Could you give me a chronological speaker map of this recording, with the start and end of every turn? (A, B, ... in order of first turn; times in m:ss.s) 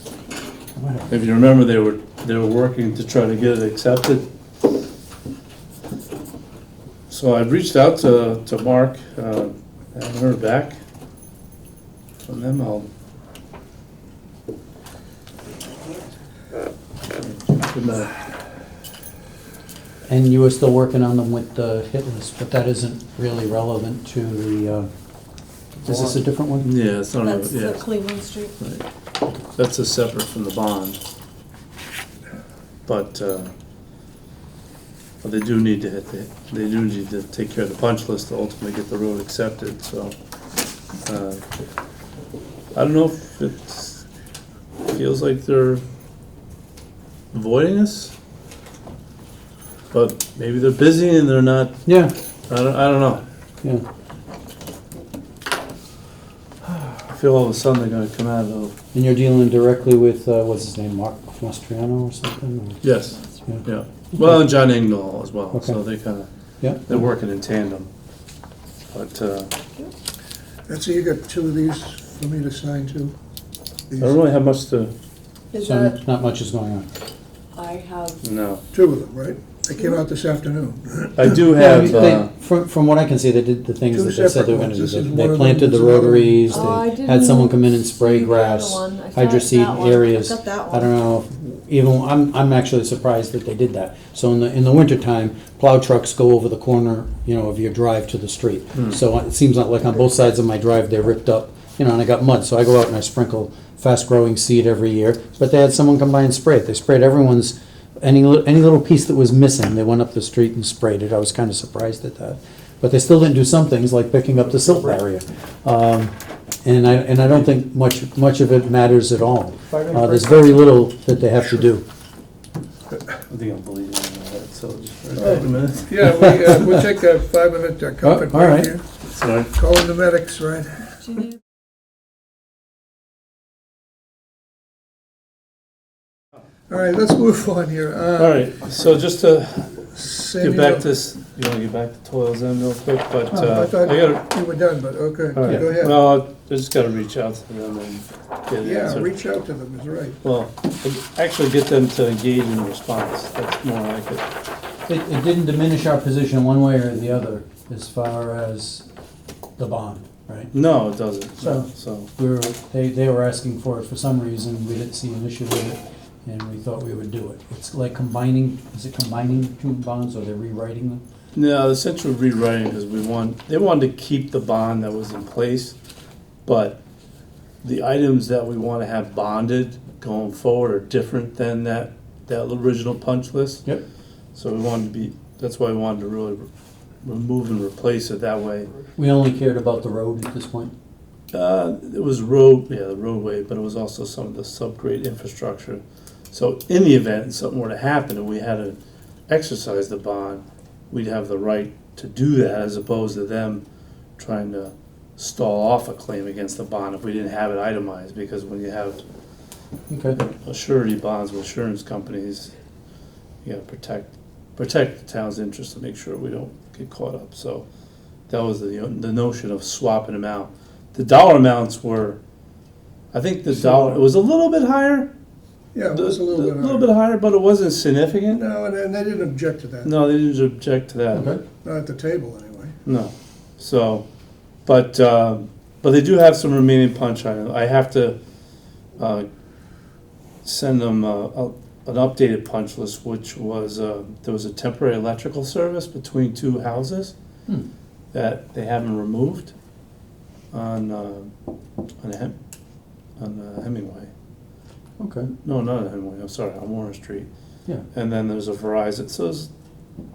0:00.8-0:01.1 A
0:01.1-0:04.3 B
0:07.1-0:10.8 B
0:12.2-0:12.9 B
0:17.2-0:18.1 B
0:20.1-0:24.9 A
0:25.8-0:26.7 A
0:25.8-0:27.9 B
0:27.2-0:28.5 C
0:28.6-0:28.8 B
0:29.5-0:31.0 B
0:32.9-0:33.5 B
0:35.2-0:40.2 B
0:41.0-0:41.4 B
0:42.7-0:44.0 B
0:44.9-0:45.8 B
0:47.3-0:48.1 B
0:49.9-0:51.8 B
0:51.9-0:52.1 A
0:52.5-0:53.2 B
0:57.0-0:58.7 B
0:58.9-1:04.6 A
1:02.8-1:06.3 B
1:05.5-1:05.8 A
1:06.6-1:06.9 A
1:06.9-1:07.9 B
1:08.9-1:09.5 B
1:10.7-1:13.2 D
1:13.9-1:14.2 D
1:14.0-1:14.9 B
1:15.5-1:16.0 C
1:15.6-1:16.9 A
1:17.5-1:18.2 C
1:18.2-1:18.6 B
1:18.7-1:21.5 D
1:21.2-1:22.3 B
1:21.5-2:01.9 A
1:23.9-1:26.7 D
1:26.5-1:30.9 C
1:59.7-2:00.6 D
2:03.3-2:06.0 B
2:05.2-2:08.8 D
2:08.0-2:08.8 A
2:09.1-2:09.5 B
2:09.5-2:11.1 D
2:16.7-2:18.4 D
2:18.2-2:24.2 B
2:19.9-2:20.9 D
2:23.3-2:26.0 D
2:25.4-2:29.1 B
2:28.6-2:30.2 D
2:30.2-2:34.3 B
2:34.9-2:38.8 A
2:39.6-2:40.5 A
2:40.5-2:42.1 B
2:41.4-2:51.0 A
2:51.3-2:55.8 B
2:56.4-2:56.8 B
2:57.6-3:03.7 B
3:04.4-3:06.5 B
3:07.0-3:08.7 B
3:09.0-3:10.7 A
3:11.3-3:18.8 B
3:19.3-3:23.6 B
3:24.2-3:29.0 B
3:29.9-3:30.2 A
3:30.2-3:32.5 B
3:33.4-3:37.6 B
3:38.3-3:42.2 B
3:43.1-3:45.1 B
3:45.7-3:46.9 D
3:45.9-3:48.4 B
3:48.3-3:49.9 D
3:49.8-3:51.4 B
3:51.1-3:51.4 A
3:51.6-3:52.8 D
3:52.8-3:54.0 B
3:54.7-3:58.2 B
3:59.0-3:59.3 B
4:00.4-4:07.1 B
4:08.1-4:09.5 B
4:10.5-4:11.3 B
4:12.0-4:12.4 B
4:13.2-4:14.1 B
4:15.0-4:15.3 A
4:15.4-4:17.3 B
4:17.9-4:19.5 B